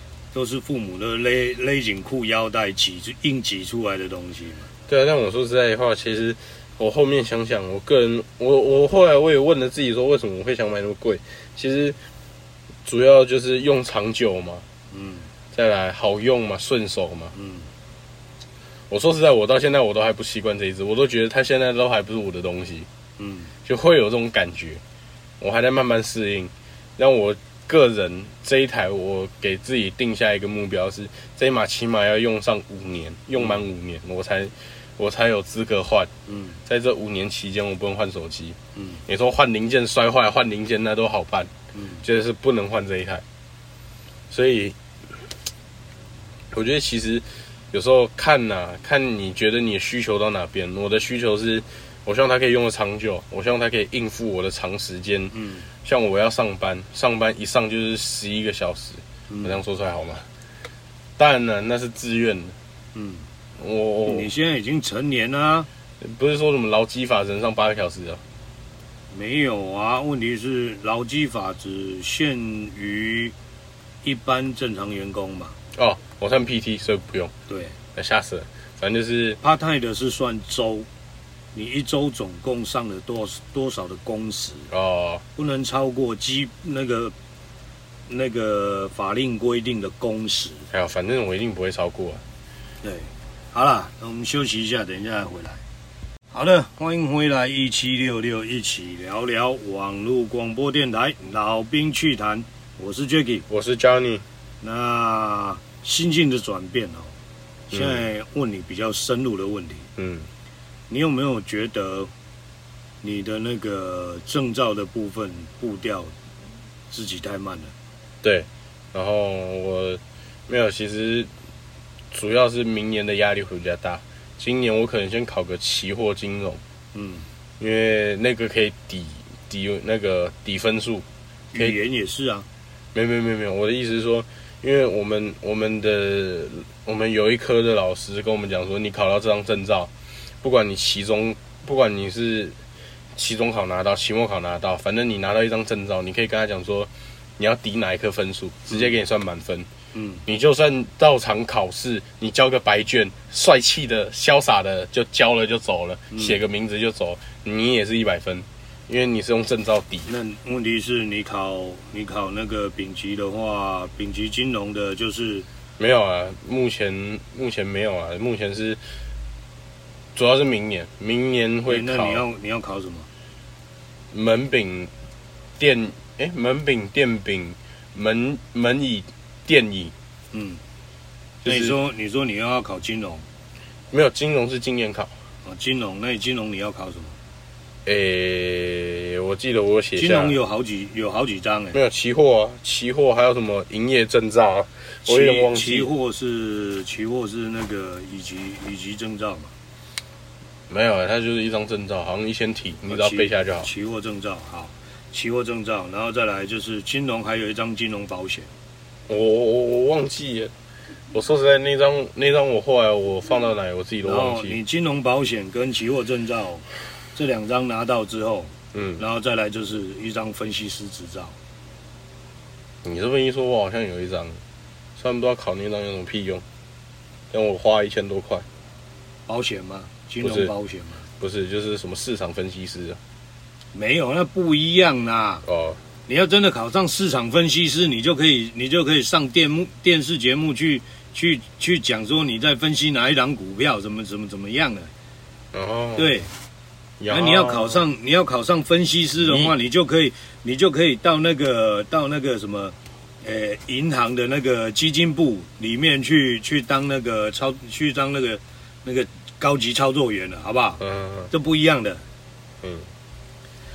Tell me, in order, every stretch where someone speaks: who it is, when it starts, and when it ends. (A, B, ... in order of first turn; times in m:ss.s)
0:00.3-0:04.7 A
0:04.9-0:12.0 B
0:12.8-0:14.6 B
0:14.9-0:15.3 A
0:15.5-0:17.3 B
0:17.3-0:17.7 A
0:18.9-0:22.9 B
0:23.2-0:23.5 A
0:23.6-0:24.8 B
0:25.4-0:36.1 B
0:36.3-0:36.6 A
0:36.6-0:41.5 B
0:38.7-0:39.0 A
0:41.7-0:42.0 A
0:42.0-0:43.2 B
0:44.3-0:44.8 B
0:46.5-1:00.3 B
0:55.3-0:55.6 A
0:59.3-0:59.6 A
1:01.2-1:02.5 B
1:02.9-1:03.2 A
1:03.6-1:04.3 B
1:04.0-1:05.7 A
1:06.0-1:08.2 B
1:09.1-1:13.3 A
1:14.0-1:15.6 A
1:15.7-1:17.3 B
1:17.5-1:17.8 A
1:17.9-1:19.4 B
1:19.4-1:20.9 A
1:21.5-1:24.7 A
1:24.7-1:25.2 B
1:25.4-1:27.1 A
1:28.1-1:30.6 A
1:30.7-1:32.2 B
1:32.8-1:35.6 A
1:36.3-1:43.4 A
1:43.5-1:44.2 B
1:44.6-1:47.1 A
1:47.7-1:49.9 A
1:47.7-1:48.0 B
1:50.0-1:50.3 B
1:50.9-1:52.1 A
1:53.0-1:56.1 A
1:56.9-1:57.7 A
1:58.2-2:01.3 B
2:02.1-2:06.6 B
2:06.9-2:07.3 A
2:07.6-2:11.0 B
2:11.5-2:12.4 A
2:12.9-2:19.9 B
2:20.4-2:22.6 B
2:23.2-2:29.7 B
2:29.9-2:30.2 A
2:30.2-2:40.1 B
2:36.1-2:36.4 A
2:40.1-2:45.4 A
2:45.8-2:48.8 B
2:50.1-2:52.2 B
2:51.7-2:53.1 A
2:54.1-2:54.9 B
2:55.6-2:59.9 B
3:00.3-3:00.6 A
3:01.4-3:01.7 B
3:01.4-3:03.2 A
3:03.9-3:05.1 B
3:05.4-3:07.2 A
3:07.8-3:10.3 B
3:10.0-3:11.8 A
3:11.7-3:15.9 B
3:15.0-3:19.5 A
3:20.7-3:23.7 B
3:22.9-3:28.5 A
3:29.1-3:30.5 B
3:31.1-3:34.6 B
3:34.0-3:41.3 A
3:38.7-3:39.0 B
3:42.8-3:44.4 B
3:45.0-3:46.4 B
3:47.3-3:48.4 B
3:49.3-3:51.1 A
3:50.2-3:50.5 B
3:51.2-3:53.0 B
3:53.7-3:55.4 A
3:55.4-3:55.8 B
3:56.1-4:04.9 A
4:05.5-4:06.1 B
4:06.0-4:06.3 A
4:07.0-4:07.8 B
4:07.1-4:22.0 A
4:09.2-4:09.5 B
4:20.8-4:21.3 B
4:22.6-4:22.9 B